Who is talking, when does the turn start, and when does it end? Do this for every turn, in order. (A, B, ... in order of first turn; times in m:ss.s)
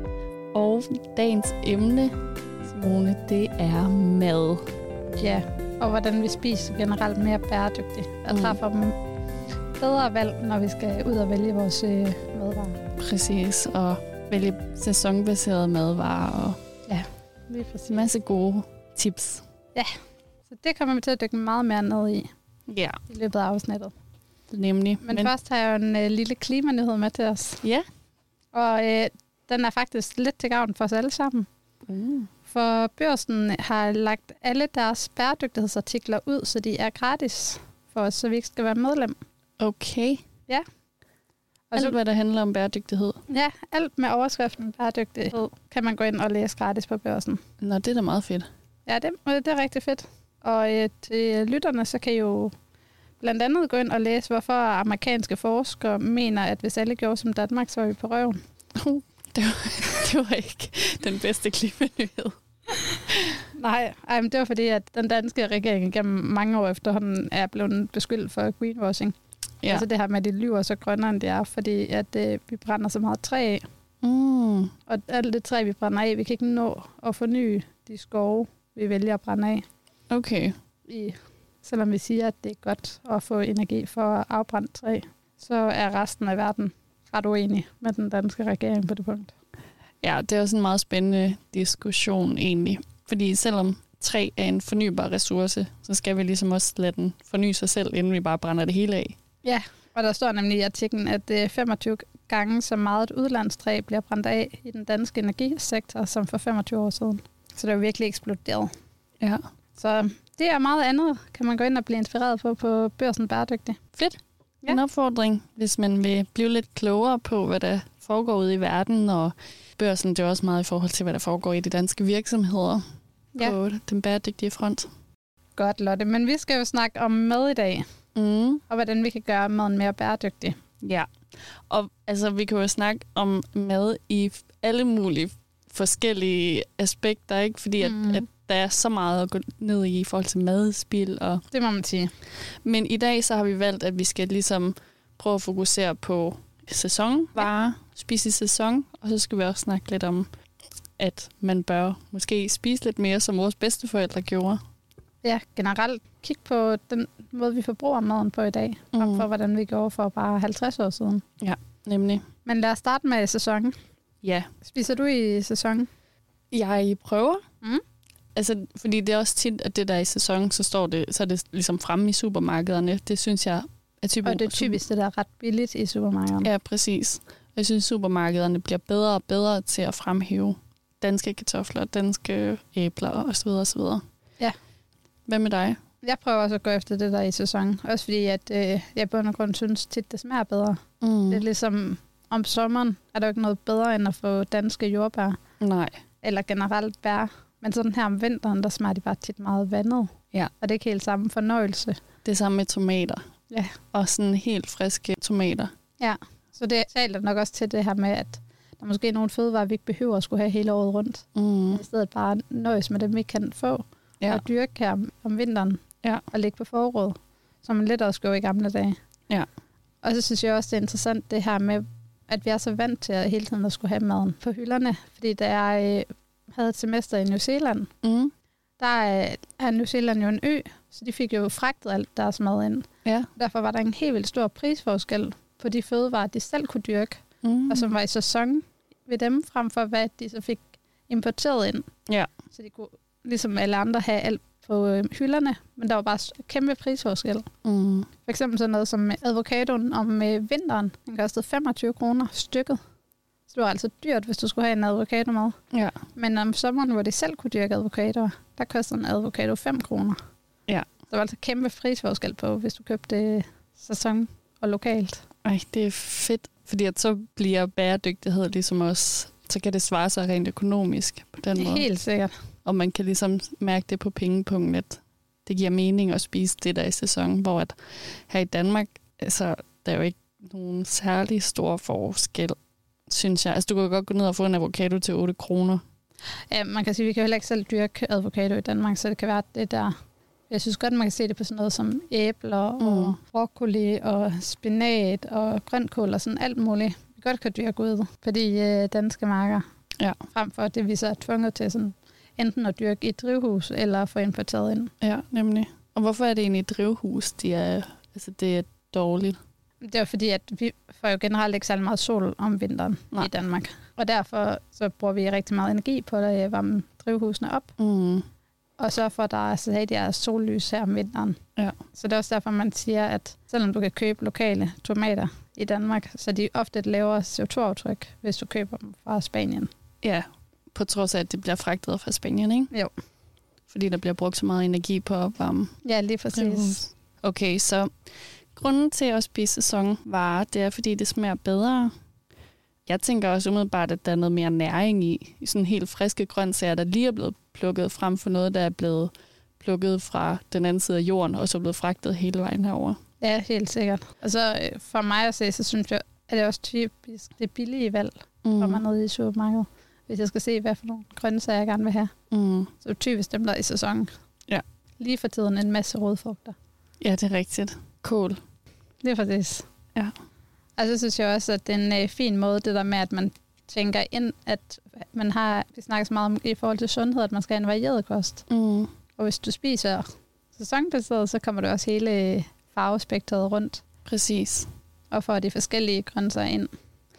0:00.5-0:04.6 A
0:05.2-0:09.0 B
0:08.3-0:08.6 A
0:09.8-0:12.8 B
0:13.0-0:16.6 A
0:16.9-0:18.1 B
0:17.9-0:19.4 A
0:20.5-0:22.3 B
0:22.7-0:23.0 A
0:23.1-0:23.9 B
0:24.5-0:25.3 A
0:25.0-0:27.6 B
0:28.5-0:31.5 B
0:31.9-0:32.3 A
0:32.5-0:39.2 B
0:39.6-0:40.2 A
0:41.7-0:42.0 B
0:41.8-0:43.2 A
0:43.3-0:47.4 B
0:47.6-0:48.5 A
0:48.9-0:52.5 B
0:53.2-0:58.4 B
0:58.8-1:02.4 A
1:03.1-1:03.4 A
1:03.6-1:09.2 B
1:09.7-1:13.6 B
1:14.0-1:14.7 A
1:14.9-1:19.6 B
1:20.1-1:20.5 A
1:20.9-1:29.3 B
1:30.0-1:39.2 A
1:39.4-1:48.7 B
1:49.8-1:53.8 B
1:54.0-2:02.8 A
2:03.4-2:04.9 A
2:05.6-2:07.8 B
2:08.2-2:08.6 A
2:08.7-2:10.6 B
2:10.8-2:11.1 A
2:11.7-2:21.4 A
2:17.8-2:18.2 B
2:21.5-2:22.1 B
2:22.6-2:30.3 A
2:31.0-2:34.6 A
2:35.2-2:41.2 B
2:38.9-2:39.3 A
2:41.4-2:42.2 A
2:42.5-2:43.8 B
2:44.2-2:44.5 A
2:44.6-2:45.9 B
2:46.5-2:47.4 A
2:48.4-2:54.8 A
2:54.2-2:56.5 B
2:56.4-3:04.0 A
3:05.3-3:05.8 A
3:06.0-3:15.4 B
3:11.0-3:11.4 A
3:15.6-3:16.0 A
3:16.2-3:22.0 B
3:22.2-3:23.2 A
3:23.5-3:23.8 B
3:23.9-3:25.7 A
3:26.0-3:39.0 B
3:31.4-3:31.8 A
3:40.0-3:47.9 B
3:48.0-3:48.3 A
3:48.8-4:01.9 B
3:57.4-3:57.9 A
4:02.5-4:07.5 B
4:07.6-4:08.1 A
4:08.2-4:12.8 B
4:13.5-4:15.6 B
4:15.7-4:16.0 A
4:16.2-4:20.2 B
4:21.1-4:25.2 B
4:25.4-4:31.8 A
4:31.6-4:32.3 B
4:32.6-4:37.8 A
4:38.3-4:42.6 A
4:43.1-4:45.8 A
4:46.5-4:49.9 B
4:50.5-4:59.6 B
4:52.8-4:53.2 A
5:00.3-5:04.9 B
5:05.0-5:09.4 A
5:09.8-5:17.7 B
5:17.8-5:18.2 A
5:18.8-5:21.4 B
5:21.9-5:29.7 B
5:30.0-5:32.7 A
5:33.7-5:35.7 A
5:35.8-5:36.9 B
5:36.3-5:38.0 A
5:38.5-5:41.9 A
5:42.9-5:53.0 A
5:53.2-6:02.1 B
5:58.4-5:58.8 A
6:02.3-6:02.7 A
6:02.8-6:04.1 B
6:05.0-6:06.6 B
6:07.0-6:08.4 A
6:09.0-6:09.7 B
6:10.8-6:18.4 B
6:18.5-6:18.9 A
6:19.2-6:23.8 B
6:24.0-6:24.7 A
6:25.1-6:26.7 B